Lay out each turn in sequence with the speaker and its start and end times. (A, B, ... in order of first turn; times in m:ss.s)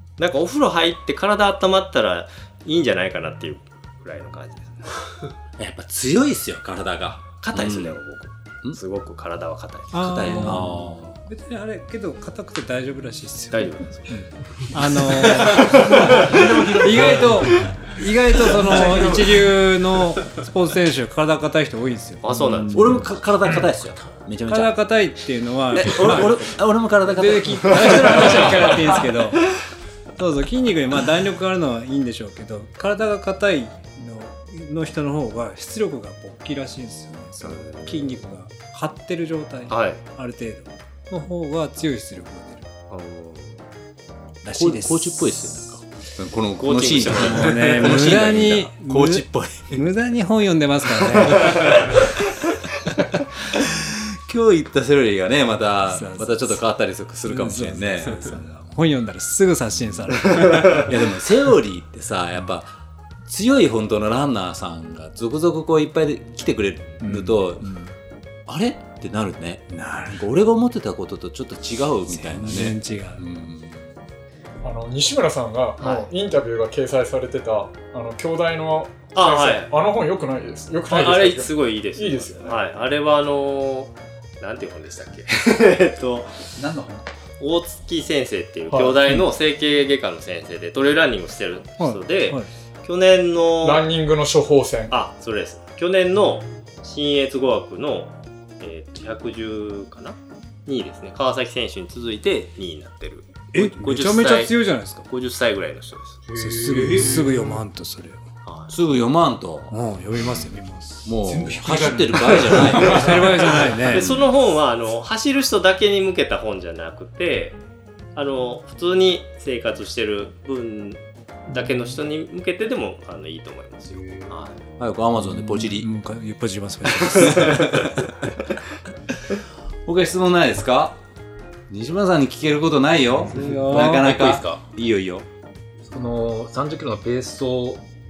0:00.2-0:05.0 A
0:05.6-0:08.0 B
0:07.4-0:10.2 A
0:09.9-0:23.0 C
0:09.9-0:11.2 B
0:13.5-0:14.2 A
0:15.5-0:16.3 A
0:15.7-0:16.3 D
0:22.2-0:23.0 A
0:22.7-0:24.8 B
0:24.5-0:26.5 C
0:25.7-0:29.0 B
0:27.0-0:29.5 C
0:30.2-0:42.7 C
0:37.4-0:38.2 A
0:39.7-0:40.0 A
0:42.9-0:43.6 A
0:44.4-0:49.9 B
0:44.4-0:45.8 C
0:46.6-0:47.8 A
0:47.2-0:52.0 C
0:51.4-0:51.9 A
0:53.5-0:58.4 B
0:55.9-0:56.6 C
0:57.2-1:00.9 C
1:00.7-1:07.7 B
1:07.0-1:07.9 C
1:08.5-1:14.0 B
1:09.7-1:10.2 C
1:12.1-1:13.2 C
1:14.6-1:22.6 E
1:15.8-1:16.1 A
1:19.1-1:19.7 A
1:20.8-1:26.5 A
1:26.6-1:27.0 D
1:27.4-1:33.9 A
1:28.7-1:29.1 E
1:31.8-1:32.5 C
1:33.6-1:35.0 E
1:34.9-1:44.5 A
1:43.5-1:45.1 C
1:45.0-1:46.2 A
1:46.3-1:47.5 F
1:46.4-1:48.2 C
1:46.9-1:47.2 D
1:48.4-1:48.7 A
1:48.7-1:49.8 B
1:49.7-1:51.1 C
1:51.0-1:53.4 B
1:51.6-1:52.6 D
1:52.7-1:54.1 C
1:53.8-1:57.6 A
1:53.9-1:54.3 B
1:58.1-2:04.6 A
2:03.9-2:04.4 F
2:04.8-2:05.9 B
2:05.2-2:08.0 C
2:07.4-2:07.9 B
2:09.8-2:11.0 B
2:11.7-2:15.3 B
2:13.3-2:14.2 C
2:13.4-2:14.4 F
2:15.9-2:17.8 F